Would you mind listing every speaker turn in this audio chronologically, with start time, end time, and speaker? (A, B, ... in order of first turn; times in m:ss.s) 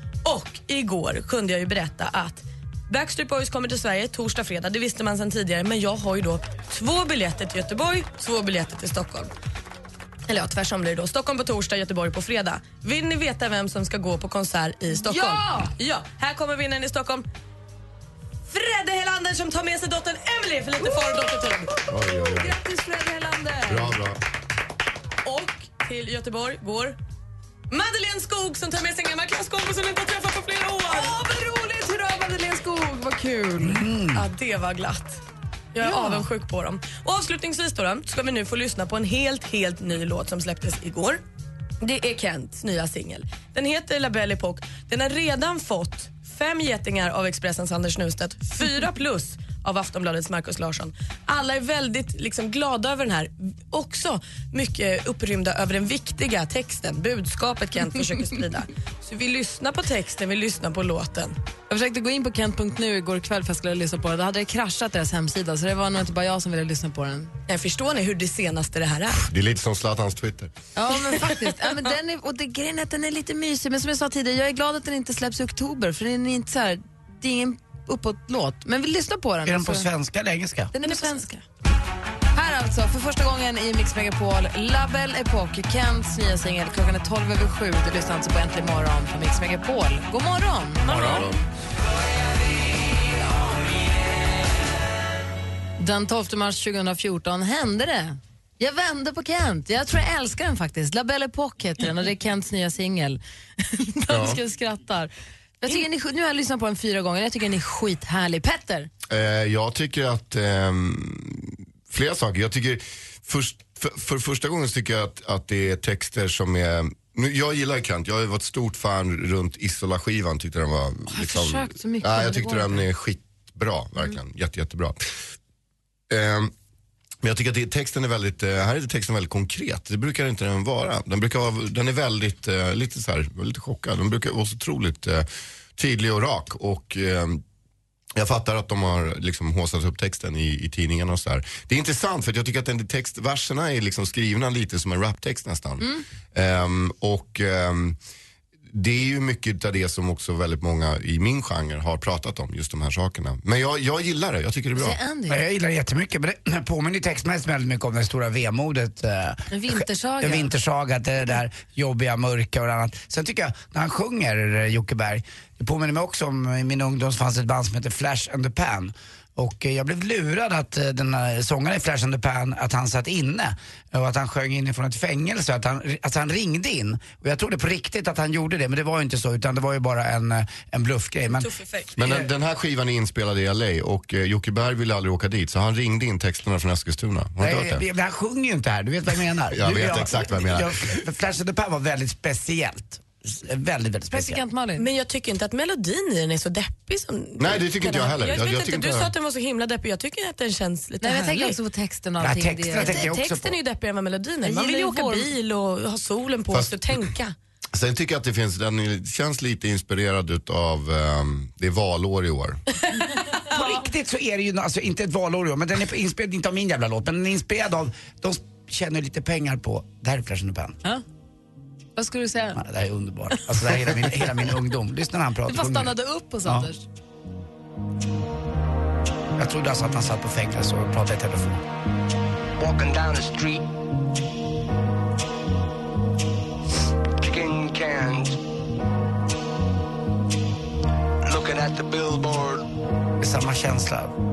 0:00.2-0:09.3 A
0:10.3-0:17.3 A
0:14.9-0:15.7 B
0:18.5-0:21.7 A
0:20.8-0:24.0 B
0:21.9-0:22.5 C
0:23.7-0:24.2 C
0:25.2-0:27.0 A
0:27.7-0:31.2 A
0:30.9-0:33.8 B
0:33.6-0:34.2 D
0:34.1-0:35.2 A
0:35.7-0:41.2 A
0:35.8-0:36.3 B
0:41.8-1:01.4 A
1:01.7-1:07.3 B
1:07.5-1:09.2 A
1:09.2-1:10.5 C
1:10.7-1:19.9 B
1:19.4-1:20.7 D
1:20.7-1:21.4 B
1:20.8-1:21.1 A
1:22.3-1:31.0 B
1:30.8-1:31.3 A
1:31.0-1:31.3 C
1:35.8-1:48.9 B
1:44.1-1:44.4 C
1:49.1-2:05.1 C
2:01.1-2:02.9 B
2:06.1-2:06.5 C
2:07.2-2:17.4 C
2:18.2-2:28.0 C
2:28.7-2:35.0 C
2:34.8-2:35.4 B
2:35.3-3:01.5 D
2:39.5-2:40.5 B
3:01.3-3:01.9 A
3:02.0-3:07.8 C
3:02.0-3:02.3 D
3:07.4-3:14.4 D
3:09.5-3:11.0 C
3:14.1-3:14.8 B
3:14.8-3:21.6 A
3:17.4-3:19.1 C
3:21.0-3:23.0 B
3:22.2-3:23.6 D
3:22.8-3:27.3 A
3:24.4-3:25.3 B
3:26.5-3:27.1 C
3:27.7-3:32.6 C
3:33.5-3:40.8 D
3:42.0-3:42.6 B
3:42.6-3:45.9 D
3:45.5-3:46.8 B
3:49.4-3:51.6 D
3:52.6-3:53.7 E
3:57.2-3:58.4 E
4:01.2-4:02.7 E
4:03.2-4:04.1 D